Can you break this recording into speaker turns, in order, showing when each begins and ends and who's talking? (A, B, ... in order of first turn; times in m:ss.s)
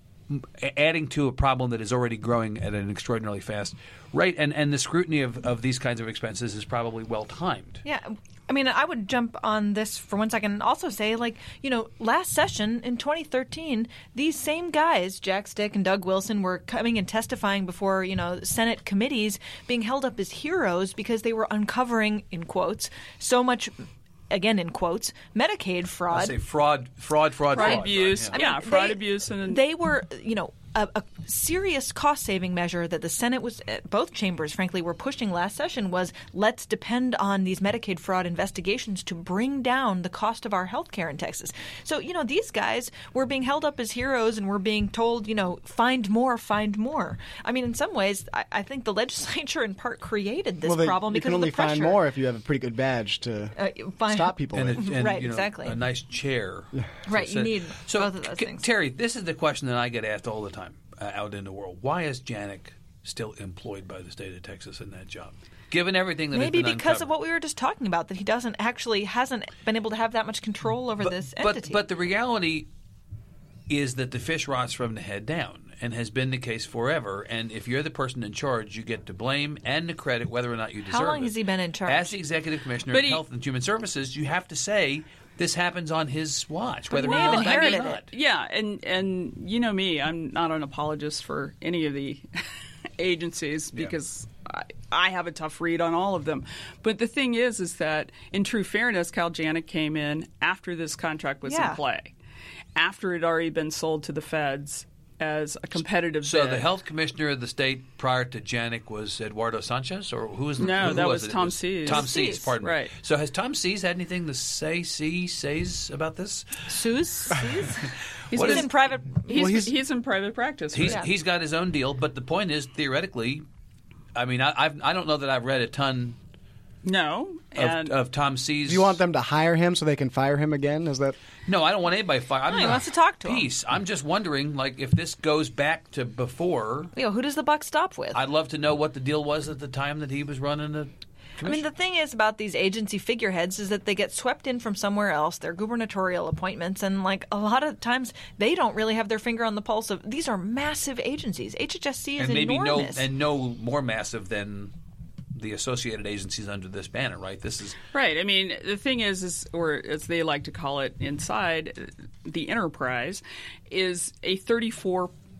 0:00.3-0:07.8 A
0:07.8-0:26.4 B
0:26.1-0:28.4 A
0:27.5-0:29.6 C
0:27.6-0:52.0 B
0:50.6-0:53.6 D
0:53.6-0:55.8 B
0:54.1-0:54.9 D
0:54.5-1:07.1 A
0:57.1-0:58.6 B
1:06.3-1:11.8 B
1:11.0-1:12.7 A
1:13.7-1:21.3 A
1:20.9-1:22.2 B
1:21.9-1:28.1 A
1:22.9-1:23.2 C
1:26.9-1:28.0 B
1:27.0-1:32.3 C
1:33.0-1:42.1 C
1:41.4-1:41.8 B
1:42.8-1:46.7 C
1:46.2-1:56.6 A
1:50.6-1:52.9 C
1:51.9-1:52.5 B
1:56.7-1:59.6 B
1:58.3-1:58.7 A
1:58.3-2:01.1 C
1:59.3-1:59.7 D
2:00.7-2:03.4 A
2:04.2-2:06.2 A
2:06.8-2:08.0 C
2:07.6-2:09.0 A
2:08.7-2:11.2 D
2:11.5-2:16.9 A
2:12.5-2:13.5 B
2:17.0-2:18.2 B
2:18.1-2:21.7 A
2:21.4-2:33.1 B
2:32.2-2:34.7 A
2:35.3-2:37.8 A
2:37.9-2:45.1 C